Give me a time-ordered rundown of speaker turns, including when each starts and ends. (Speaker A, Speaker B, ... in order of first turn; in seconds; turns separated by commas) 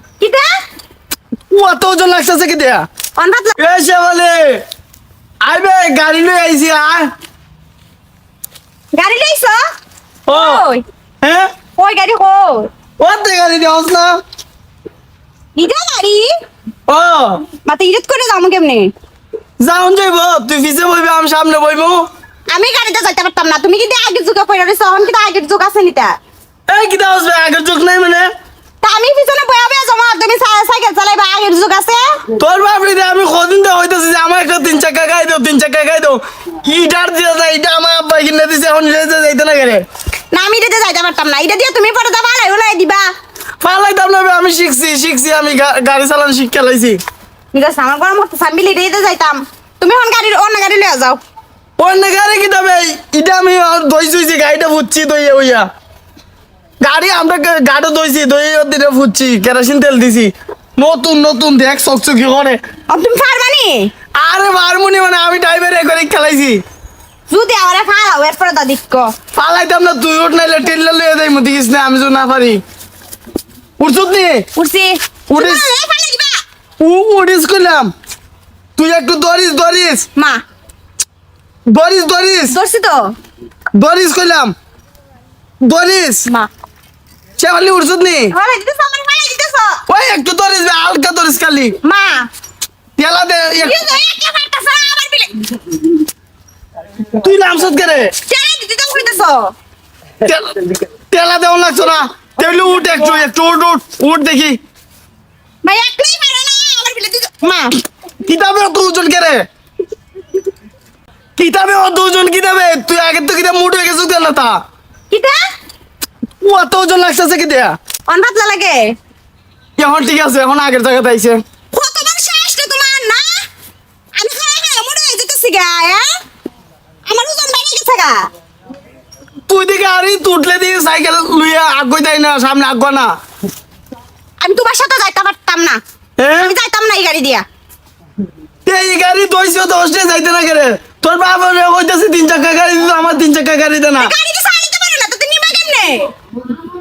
Speaker A: 0.2-0.5, Speaker B: 1.5-2.9, Speaker A: 3.2-3.5, Speaker B: 3.6-4.6, Speaker B: 5.4-7.1, Speaker A: 8.9-9.6, Speaker A: 10.3-10.8, Speaker B: 10.3-10.6, Speaker B: 11.2-11.5, Speaker A: 11.8-12.7, Speaker B: 13.0-14.2, Speaker A: 15.6-16.3, Speaker B: 16.9-17.4, Speaker A: 17.6-18.9, Speaker B: 19.6-22.1, Speaker A: 22.5-26.2, Speaker B: 26.7-28.3, Speaker A: 28.8-32.2, Speaker B: 32.4-39.8, Speaker A: 40.3-43.1, Speaker B: 43.6-47.0, Speaker A: 47.5-51.2, Speaker B: 51.8-55.7, Speaker B: 56.8-62.6, Speaker A: 62.9-63.9, Speaker B: 64.2-66.6, Speaker A: 67.3-69.1, Speaker B: 69.3-72.6, Speaker B: 73.8-74.5, Speaker A: 74.5-76.4, Speaker B: 75.3-75.6, Speaker B: 76.8-77.9, Speaker B: 78.8-80.1, Speaker A: 80.2-80.4, Speaker B: 81.7-82.5, Speaker A: 82.5-83.2, Speaker B: 83.8-84.5, Speaker B: 85.6-86.3, Speaker B: 87.4-88.3, Speaker A: 88.3-89.8, Speaker B: 89.9-91.8, Speaker A: 91.8-92.3, Speaker B: 93.0-93.8, Speaker A: 93.6-95.4, Speaker B: 97.1-98.1, Speaker A: 98.3-99.5, Speaker B: 100.2-100.6, Speaker B: 101.1-104.6, Speaker A: 105.6-107.8, Speaker B: 108.2-109.4, Speaker B: 111.4-114.6, Speaker A: 115.1-115.4, Speaker B: 116.4-117.8, Speaker A: 118.1-119.0, Speaker B: 119.8-121.4, Speaker A: 121.7-123.5, Speaker A: 124.2-126.1, Speaker A: 127.1-128.3, Speaker B: 129.5-133.1, Speaker A: 134.4-135.8, Speaker B: 136.2-136.5, Speaker A: 136.4-137.4, Speaker B: 138.7-144.1, Speaker A: 144.0-146.1